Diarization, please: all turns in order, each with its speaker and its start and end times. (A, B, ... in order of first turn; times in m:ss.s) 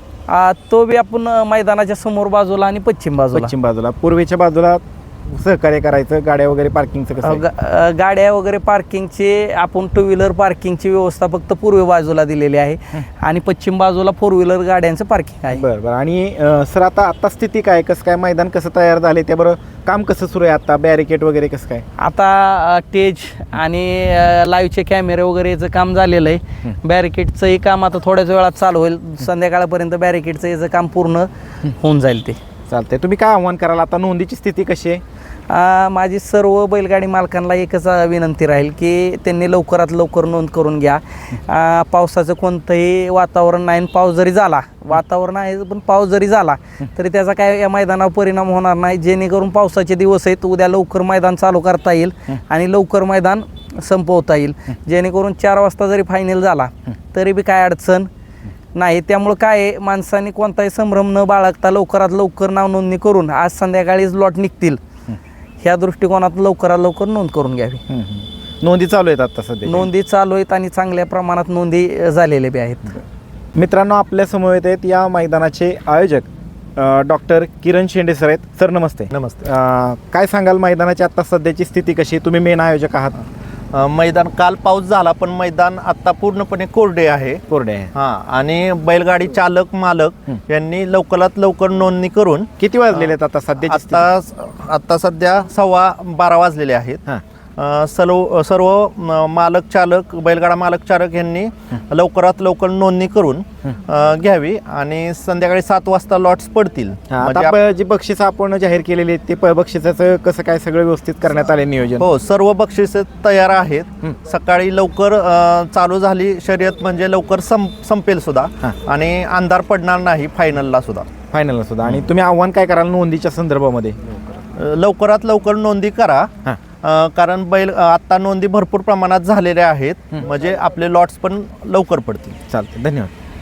0:00.3-0:03.5 A
0:03.3-0:07.4 B
0:07.2-0:15.6 A
0:15.5-0:21.8 B
0:22.0-0:32.4 A
0:32.7-0:35.0 B
0:35.5-0:58.1 A
0:58.7-1:04.8 A
1:05.6-1:07.8 A
1:07.9-1:09.9 B
1:09.6-1:13.0 A
1:13.6-1:23.2 B
1:19.1-1:19.4 C
1:23.7-1:27.4 C
1:27.5-1:27.9 B
1:28.0-1:32.5 C
1:32.6-1:34.1 B
1:33.6-1:37.0 C
1:37.6-1:47.6 C
1:47.1-1:52.0 B
1:52.0-2:01.1 C
2:01.3-2:04.2 B
2:04.6-2:06.3 C
2:06.8-2:12.4 C
2:12.4-2:13.1 B